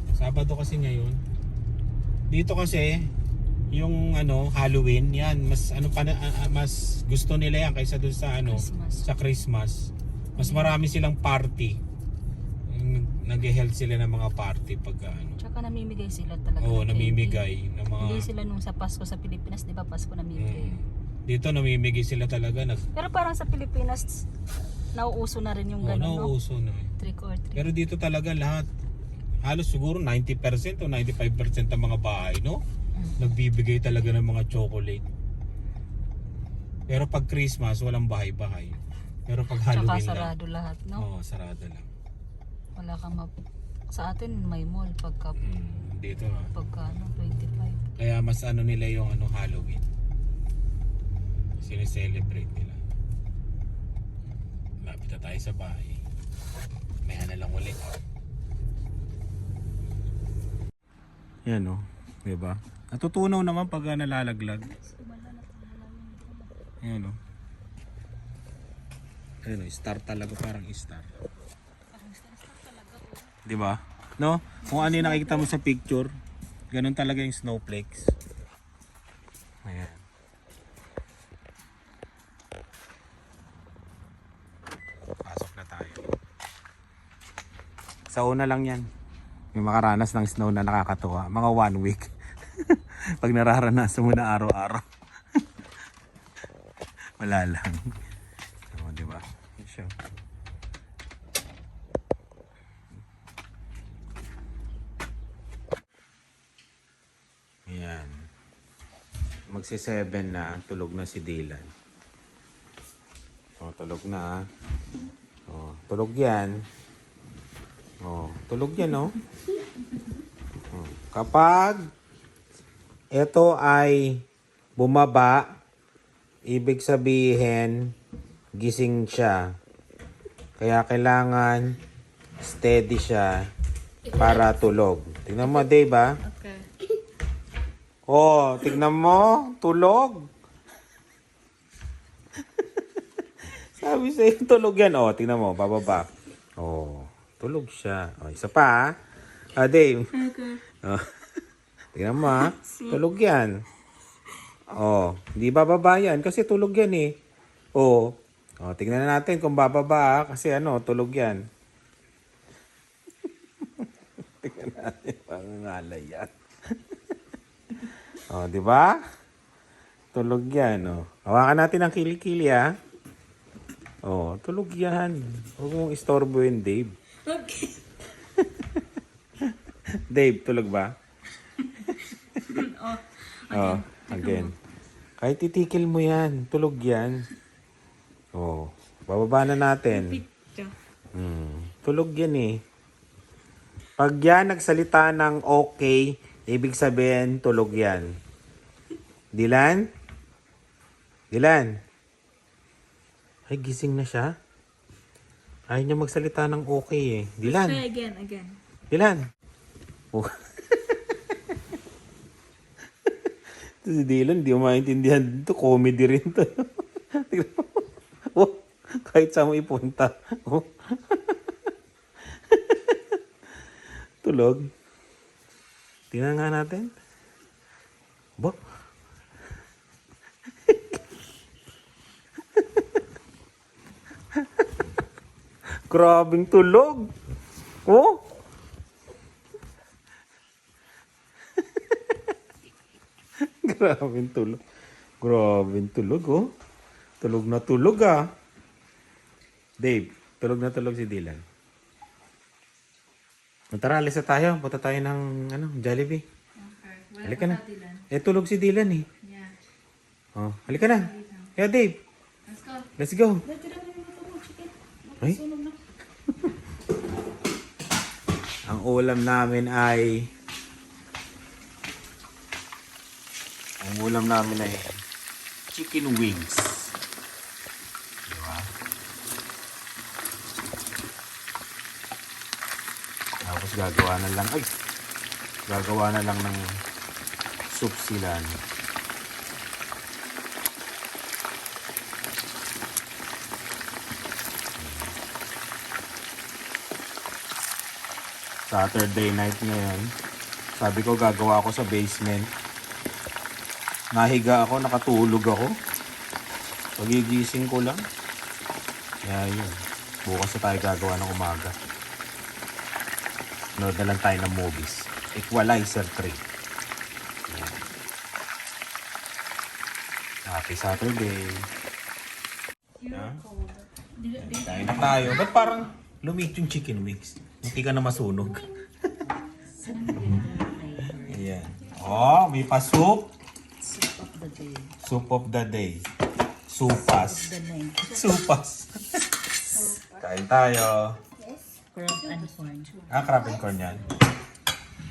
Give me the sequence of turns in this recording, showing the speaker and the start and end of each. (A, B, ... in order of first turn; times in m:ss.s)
0:00.2-0:01.2 A
0:02.3-0:03.1 A
0:03.7-0:11.8 A
0:08.4-0:09.1 B
0:10.4-0:10.8 B
0:12.7-0:15.4 A
0:15.4-0:17.4 B
0:16.6-0:18.2 A
0:18.0-0:20.8 B
0:20.4-0:22.8 A
0:22.9-0:24.2 B
0:24.9-0:26.3 B
0:25.8-0:26.9 A
0:27.0-0:27.7 B
0:27.5-0:28.7 A
0:29.4-0:32.6 A
0:33.2-0:35.0 A
0:36.9-0:40.3 A
0:39.5-0:41.0 B
0:41.0-0:41.9 A
0:42.8-0:43.3 B
0:43.9-0:45.4 B
0:45.4-0:46.5 A
0:46.5-0:47.8 B
0:48.0-0:49.8 A
0:51.6-0:52.8 A
0:54.8-0:56.0 A
0:57.0-0:57.9 A
1:01.5-1:04.7 A
1:04.7-1:06.6 B
1:06.8-1:07.2 A
1:09.4-1:11.1 A
1:11.9-1:13.4 B
1:13.4-1:16.1 A
1:14.7-1:15.5 B
1:16.7-1:18.1 A
1:19.6-1:20.0 A
1:25.2-1:26.0 A
1:28.1-1:28.8 A
1:29.5-1:34.8 A
1:37.2-1:37.9 A
1:38.7-1:39.9 A
1:47.7-1:48.3 A
1:49.5-1:51.7 A
1:53.6-1:54.5 A
1:55.5-1:56.6 A
1:58.0-1:59.2 A
2:00.7-2:01.9 A
2:03.1-2:04.2 A
2:04.8-2:05.5 A
2:06.5-2:07.9 A
2:08.6-2:09.5 A
2:10.6-2:11.8 A
2:12.4-2:13.5 A
2:14.1-2:16.2 A
2:16.2-2:16.6 C
2:18.1-2:20.3 A
2:22.6-2:28.9 A
2:29.6-2:30.1 A
2:30.8-2:31.2 A
2:31.9-2:33.6 A
2:34.7-2:37.1 A
2:37.8-2:41.4 A
2:43.6-2:43.9 A
2:44.4-2:46.8 A
2:48.1-2:49.0 A
2:50.1-2:52.7 A
2:54.0-2:56.9 A
2:57.3-2:57.6 B
2:58.4-2:58.8 A
2:59.4-3:00.9 A
3:02.5-3:04.5 B
3:03.5-3:04.5 A
3:05.2-3:07.3 A
3:08.3-3:10.2 A
3:11.1-3:12.6 A
3:14.0-3:18.1 A
3:19.3-3:19.8 A
3:21.3-3:21.7 A
3:23.5-3:24.3 A
3:25.7-3:27.8 A
3:28.9-3:29.3 A
3:30.1-3:31.6 A
3:33.8-3:41.5 A
3:42.5-3:43.2 A
3:44.2-3:44.7 A
3:46.1-3:46.9 A
3:50.7-3:51.0 A
3:54.4-3:54.6 A
3:55.9-3:57.1 A
3:57.8-3:58.2 A
4:01.9-4:02.2 A
4:03.4-4:04.6 A
4:05.2-4:06.5 A
4:07.2-4:08.3 A
4:09.8-4:11.4 A
4:13.7-4:16.2 A
4:16.6-4:18.0 C
4:17.2-4:19.1 A
4:19.2-4:19.5 C
4:20.4-4:22.0 A
4:20.8-4:21.5 C
4:22.4-4:22.9 C
4:23.0-4:23.4 A
4:28.7-4:30.3 A
4:33.8-4:34.9 A
4:35.7-4:36.9 A
4:38.3-4:38.7 A
4:43.4-4:44.8 A
4:45.7-4:46.8 A
4:47.7-4:48.6 A
4:54.8-4:55.1 A
4:58.7-5:00.1 A
5:00.8-5:02.5 A
5:04.1-5:05.7 A
5:07.0-5:08.0 A
5:09.2-5:11.7 A
5:13.8-5:16.4 A
5:17.5-5:17.8 A
5:20.4-5:21.7 A
5:23.0-5:23.8 C
5:23.1-5:23.4 A
5:24.4-5:28.7 A
5:29.9-5:30.6 B
5:31.2-5:33.3 A
5:35.0-5:36.1 A
5:36.7-5:41.2 A
5:42.0-5:42.9 B
5:42.2-5:42.9 C
5:43.1-5:44.1 A